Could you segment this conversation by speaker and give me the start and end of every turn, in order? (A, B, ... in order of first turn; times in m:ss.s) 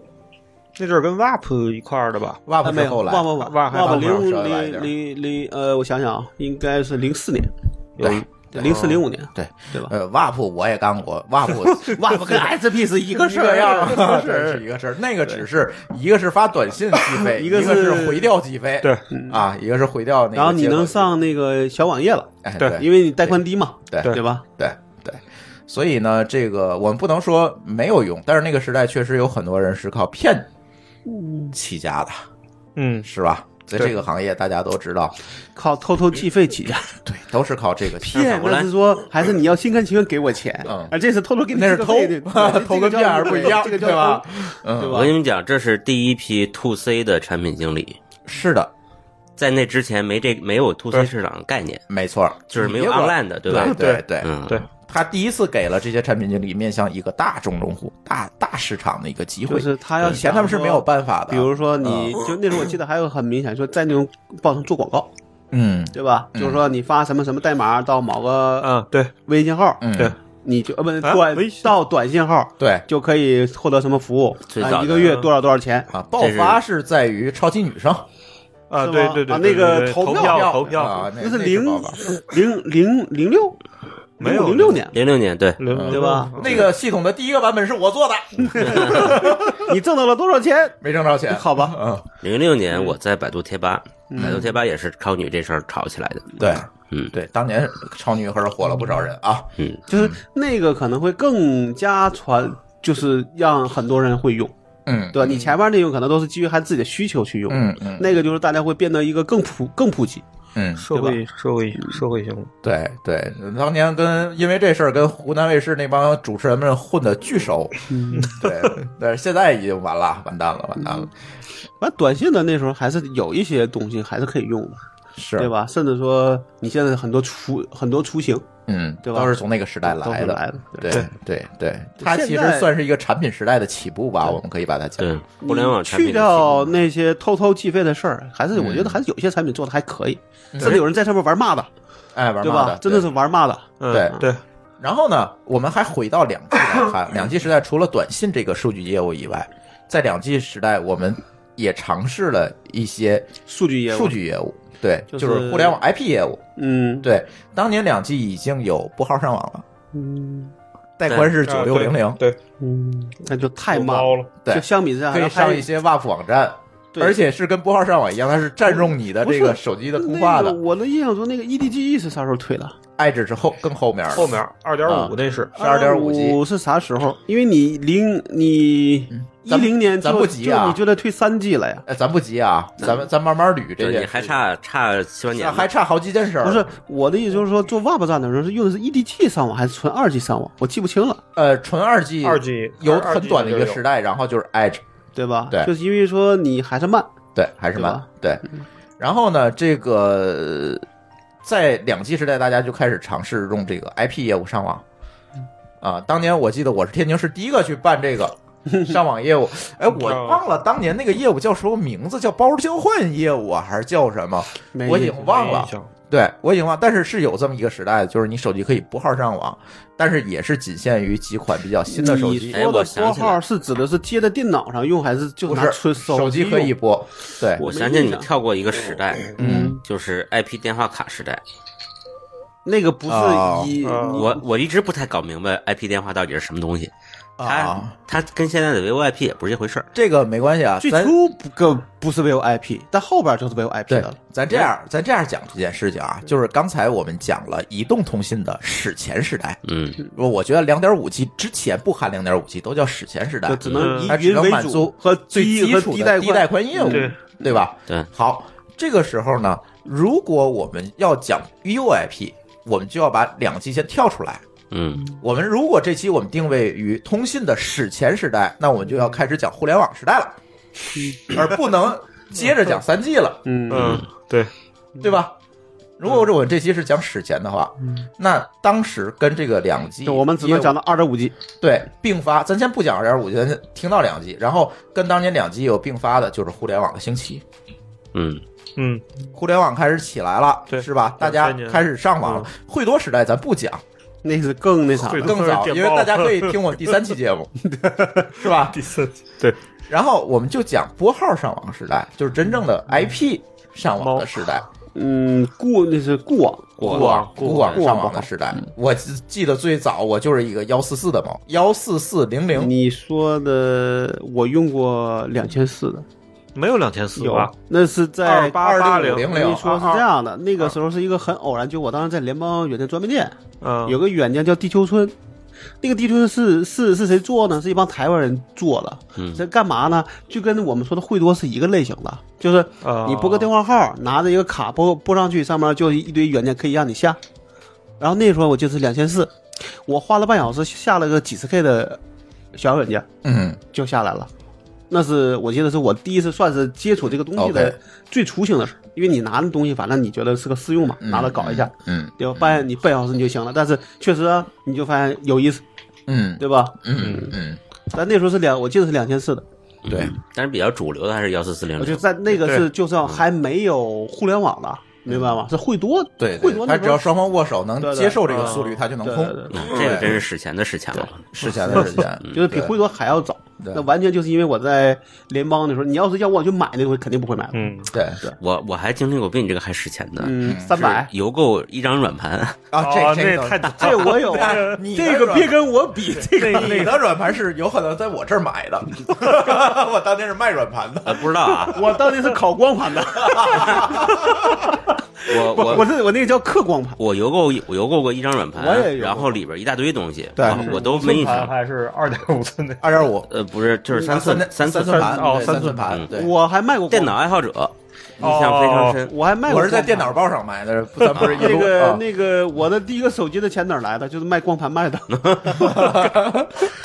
0:00.8-0:02.4 A
0:02.5-0:04.9 B
0:02.6-0:09.9 C
0:03.3-0:04.2 A
0:08.0-0:09.0 A
0:08.0-0:08.7 B
0:09.3-0:12.4 B
0:11.8-0:14.6 C
0:13.1-0:21.1 B
0:17.1-0:18.3 C
0:19.1-0:19.4 C
0:20.3-0:24.4 C
0:22.4-0:23.3 B
0:23.9-0:30.5 B
0:31.0-0:31.5 C
0:31.5-0:32.2 B
0:32.8-0:33.1 A
0:33.0-0:35.2 B
0:35.6-0:36.9 C
0:37.0-0:38.3 B
0:38.0-0:45.1 C
0:38.1-0:38.7 D
0:40.6-0:40.9 B
0:41.5-0:45.0 B
0:44.8-0:48.0 D
0:48.3-0:48.7 B
0:49.4-0:51.8 D
0:51.9-0:54.3 B
0:52.5-0:54.6 D
0:53.5-0:54.6 A
0:54.9-1:02.2 B
0:59.5-1:05.1 C
1:05.5-1:06.6 B
1:05.9-1:08.7 C
1:08.6-1:09.1 A
1:09.2-1:09.8 C
1:09.8-1:10.1 B
1:10.4-1:15.9 C
1:11.0-1:11.7 A
1:12.6-1:12.8 B
1:14.5-1:15.2 D
1:15.0-1:15.3 A
1:15.9-1:18.0 B
1:16.2-1:16.6 D
1:18.7-1:21.1 A
1:18.8-1:23.6 C
1:20.1-1:22.0 B
1:24.2-1:24.9 C
1:24.2-1:24.9 A
1:24.9-1:25.6 D
1:25.6-1:26.7 A
1:25.7-1:29.7 B
1:25.9-1:26.6 C
1:28.5-1:31.8 C
1:30.8-1:32.0 B
1:32.2-1:37.1 D
1:34.1-1:34.4 C
1:34.2-1:34.4 B
1:36.4-1:40.2 B
1:39.9-1:44.5 C
1:44.9-1:45.5 B
1:45.1-1:50.2 C
1:47.5-1:48.1 B
1:50.6-1:50.8 B
1:50.8-1:52.5 A
1:50.9-1:51.2 C
1:51.8-1:52.0 C
1:52.6-1:57.8 B
1:57.9-1:58.3 C
1:58.1-1:58.7 A
1:58.3-2:01.1 B
2:01.8-2:04.8 C
2:05.2-2:05.5 B
2:05.4-2:08.4 C
2:08.7-2:15.1 B
2:09.0-2:11.0 C
2:12.0-2:12.7 C
2:15.0-2:16.8 D
2:15.4-2:21.7 C
2:18.5-2:19.0 B
2:20.5-2:20.8 B
2:22.2-2:23.1 B
2:22.4-2:24.3 C
2:23.8-2:24.4 A
2:23.9-2:24.2 B
2:24.8-2:33.3 B
2:33.4-2:34.2 C
2:33.9-2:36.4 B
2:35.1-2:35.8 C
2:36.6-2:37.1 C
2:37.0-2:39.6 B
2:39.9-2:40.5 C
2:41.0-2:42.2 B
2:41.4-2:42.4 A
2:42.6-2:45.7 C
2:43.7-2:44.3 A
2:44.4-2:50.6 B
2:48.7-2:52.8 C
2:53.0-2:56.4 B
2:54.1-2:55.5 A
2:55.5-3:01.8 C
2:59.1-3:00.8 B
3:01.9-3:04.3 B
3:03.8-3:05.7 D
3:05.3-3:06.7 B
3:06.4-3:11.2 C
3:11.4-3:14.8 B
3:12.2-3:13.8 A
3:15.1-3:17.1 C
3:17.3-3:18.4 B
3:17.7-3:18.0 C
3:19.0-3:20.8 B
3:21.4-3:24.8 B
3:25.8-3:42.6 B
3:29.9-3:30.4 A
3:34.7-3:35.6 C
3:35.2-3:35.9 A
3:41.9-3:46.7 C
3:42.5-3:43.4 D
3:45.5-3:47.6 B
3:47.6-3:48.3 C
3:47.6-3:51.4 D
3:49.4-3:49.8 C
3:49.4-3:49.8 B
3:52.6-3:54.4 C
3:53.1-3:53.7 B
3:53.8-3:54.2 A
3:54.1-3:56.9 D
3:57.4-3:57.9 B
3:57.4-3:59.9 D
3:59.9-4:01.1 B
4:00.8-4:04.7 C
4:03.9-4:09.6 B
4:09.6-4:10.0 D
4:10.2-4:24.4 B
4:13.4-4:17.1 C
4:13.6-4:14.1 D
4:13.8-4:14.1 A
4:16.8-4:17.1 A
4:24.7-4:25.1 D
4:25.2-4:30.3 B
4:31.2-4:33.4 B
4:33.4-4:34.0 C
4:33.7-4:34.5 A
4:33.7-4:34.0 D
4:35.0-4:35.3 B
4:36.0-4:40.7 B
4:40.0-4:41.3 C
4:41.6-4:47.4 B
4:48.1-4:48.4 D
4:48.8-4:49.0 A
4:49.3-4:53.8 B
4:50.7-4:52.5 A
4:54.2-4:55.5 C
4:55.0-4:56.6 A
4:55.2-4:57.5 B
4:57.8-4:58.1 C
4:58.3-4:58.8 B
4:58.7-4:59.6 A
4:59.9-5:04.6 B
5:04.0-5:04.4 A
5:05.0-5:08.3 C
5:06.8-5:12.7 B
5:06.8-5:07.8 A
5:12.5-5:16.0 C
5:16.5-5:17.5 A
5:17.2-5:25.1 C
5:18.2-5:20.0 A
5:18.6-5:19.7 B
5:23.6-5:24.0 A
5:25.8-5:37.2 C
5:29.2-5:29.4 D
5:32.8-5:33.5 A
5:38.0-5:42.0 C
5:42.5-5:43.1 C
5:43.2-5:43.6 B
5:43.7-5:44.3 C
5:44.9-5:55.6 C
5:47.4-5:47.8 B
5:51.0-5:52.6 B
5:56.1-5:57.6 B
5:56.4-5:57.3 C
5:57.0-5:57.3 A
5:57.9-5:59.4 C
5:59.8-6:02.0 D
5:59.9-6:00.1 B
6:01.8-6:07.1 C
6:02.3-6:02.7 A
6:06.2-6:10.2 B
6:07.8-6:09.9 C
6:08.2-6:08.8 A
6:09.5-6:11.2 D
6:11.3-6:12.7 B
6:11.6-6:18.4 C
6:13.6-6:13.8 B
6:17.5-6:17.9 A
6:17.9-6:18.2 B
6:18.4-6:22.6 D
6:20.2-6:21.1 C
6:20.4-6:20.9 B
6:22.7-6:25.6 B
6:22.8-6:24.8 A
6:23.8-6:27.0 C
6:26.4-6:27.0 A
6:26.5-6:31.3 B
6:31.0-6:31.9 D
6:31.7-6:37.0 C
6:33.2-6:34.4 B
6:35.3-6:35.9 D
6:37.0-6:41.5 D
6:38.5-6:39.4 C
6:40.4-6:41.5 C
6:40.6-6:43.1 A
6:42.8-6:43.3 B
6:43.3-6:45.3 D
6:43.9-6:44.4 C
6:43.9-6:46.3 B
6:44.7-6:45.8 A
6:45.2-6:47.2 C
6:45.8-6:46.1 D
6:46.9-6:49.1 D
6:48.2-6:49.0 A
6:49.0-6:50.2 C
6:49.4-6:52.0 B
6:51.1-6:55.7 C
6:55.1-6:55.6 D
6:55.5-6:56.7 B